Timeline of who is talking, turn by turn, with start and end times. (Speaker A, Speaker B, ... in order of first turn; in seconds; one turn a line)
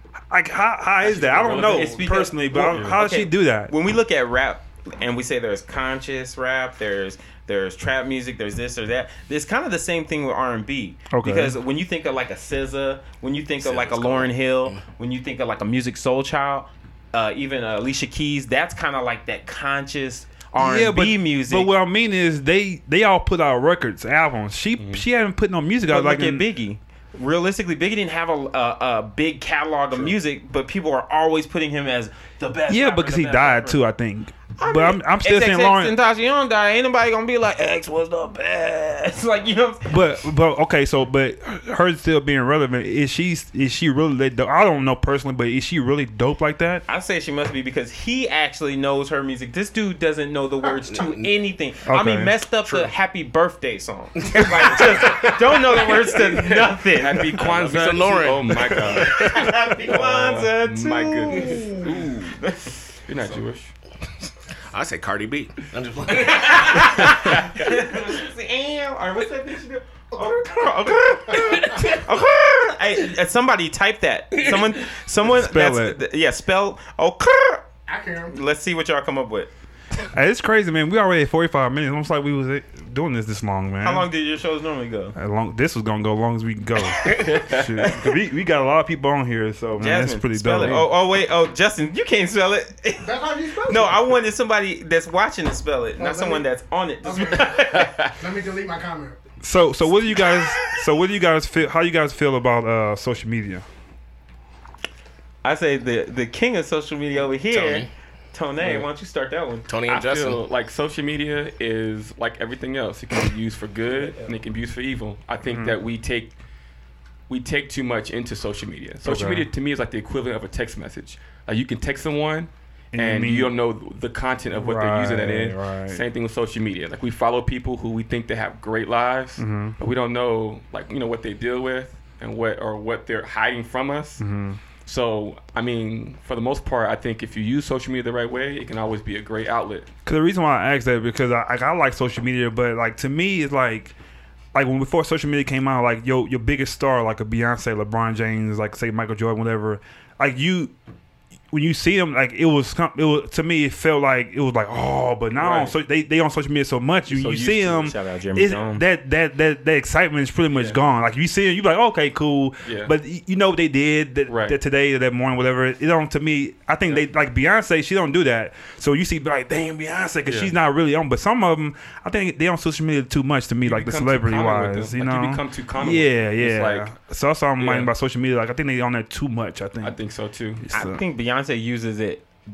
Speaker A: 0.3-3.7
Speaker B: 1.0-3.0
Speaker C: 1.4-21.7
Speaker A: 11.1-11.5
Speaker D: 13.6-14.8
Speaker A: 20.6-26.4
Speaker B: 24.8-25.0
Speaker C: 25.9-33.8
Speaker A: 32.7-35.9
Speaker C: 34.6-40.0
Speaker A: 39.9-46.8
Speaker C: 46.9-57.5
Speaker D: 50.8-51.3
Speaker A: 51.9-52.3
Speaker D: 52.6-52.9
Speaker D: 54.2-55.5
Speaker B: 55.9-63.7
Speaker D: 57.4-59.0
Speaker C: 58.9-62.7
Speaker D: 64.7-67.7
Speaker C: 66.2-77.6
Speaker E: 70.2-70.5
Speaker D: 71.7-72.0
Speaker A: 75.3-76.0
Speaker E: 77.9-78.4
Speaker C: 78.3-79.5
Speaker A: 80.1-84.1
Speaker C: 83.8-85.1
Speaker A: 85.2-90.9
Speaker B: 87.0-87.8
Speaker C: 87.8-88.1
Speaker C: 89.8-98.1
Speaker E: 93.0-94.0
Speaker E: 96.0-96.5
Speaker E: 97.0-99.2
Speaker B: 97.7-98.1
Speaker A: 99.4-103.6
Speaker C: 105.4-109.7
Speaker D: 107.5-107.9
Speaker B: 108.6-108.9
Speaker D: 109.7-110.4
Speaker B: 109.9-116.3
Speaker C: 114.0-114.3
Speaker A: 115.5-115.8
Speaker B: 117.3-134.2
Speaker A: 119.0-119.5
Speaker A: 122.9-123.5
Speaker A: 124.5-126.0
Speaker A: 129.4-129.8
Speaker A: 134.2-134.6
Speaker B: 134.8-139.9
Speaker A: 140.1-143.9
Speaker A: 144.5-150.7
Speaker A: 151.5-180.0
Speaker B: 155.3-155.7
Speaker B: 157.1-157.9
Speaker C: 157.8-158.8
Speaker B: 160.5-160.8
Speaker B: 162.6-162.9
Speaker B: 164.3-164.6
Speaker B: 170.2-170.5
Speaker B: 173.6-176.9
Speaker B: 177.6-177.9
Speaker B: 179.8-180.6
Speaker A: 180.6-181.0
Speaker C: 180.7-182.2